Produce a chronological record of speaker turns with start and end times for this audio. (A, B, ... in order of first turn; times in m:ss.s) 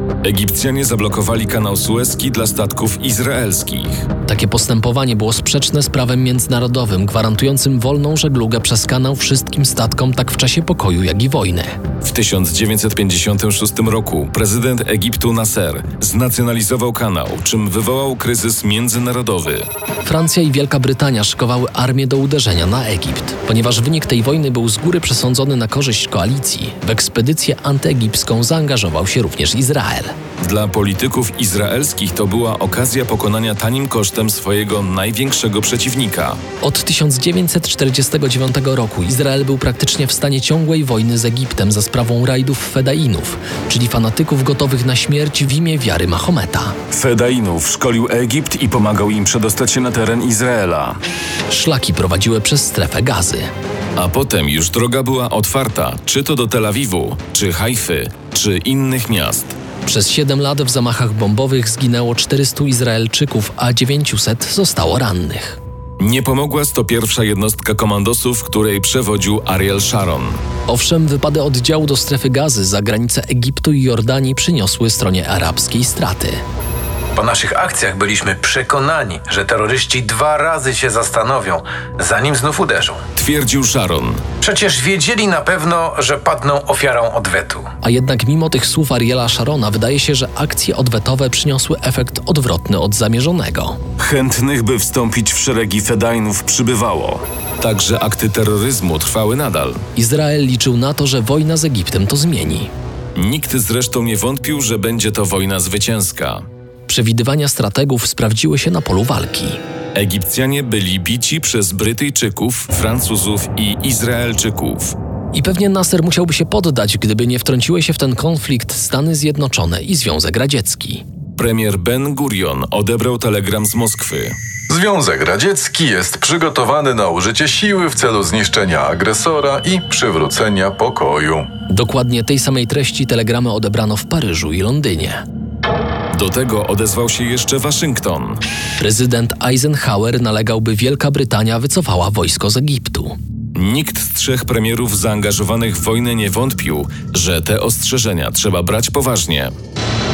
0:00.2-0:04.1 A
0:04.3-0:11.8 B
0:12.0-0:19.7 A
0:20.0-0:30.1 B
0:30.4-0:36.4 A
0:36.6-0:46.8 B
0:46.9-0:51.0 A
0:51.5-0:53.5 B
0:54.0-0:59.6 A
0:59.8-1:05.6 B
1:06.0-1:10.4 A
1:10.7-1:16.4 B
1:17.2-1:23.0 C
1:23.2-1:24.2 A
1:24.4-1:27.7 C
1:27.8-1:33.8 B
1:34.0-1:39.8 A
1:40.0-1:42.7 B
1:43.2-1:46.4 A
1:46.9-1:49.6 B
1:49.9-1:54.9 A
1:55.3-2:01.0 B
2:01.4-2:04.4 A
2:04.7-2:11.5 D
2:11.7-2:15.2 B
2:16.1-2:18.4 A
2:18.8-2:23.2 B
2:23.6-2:29.5 A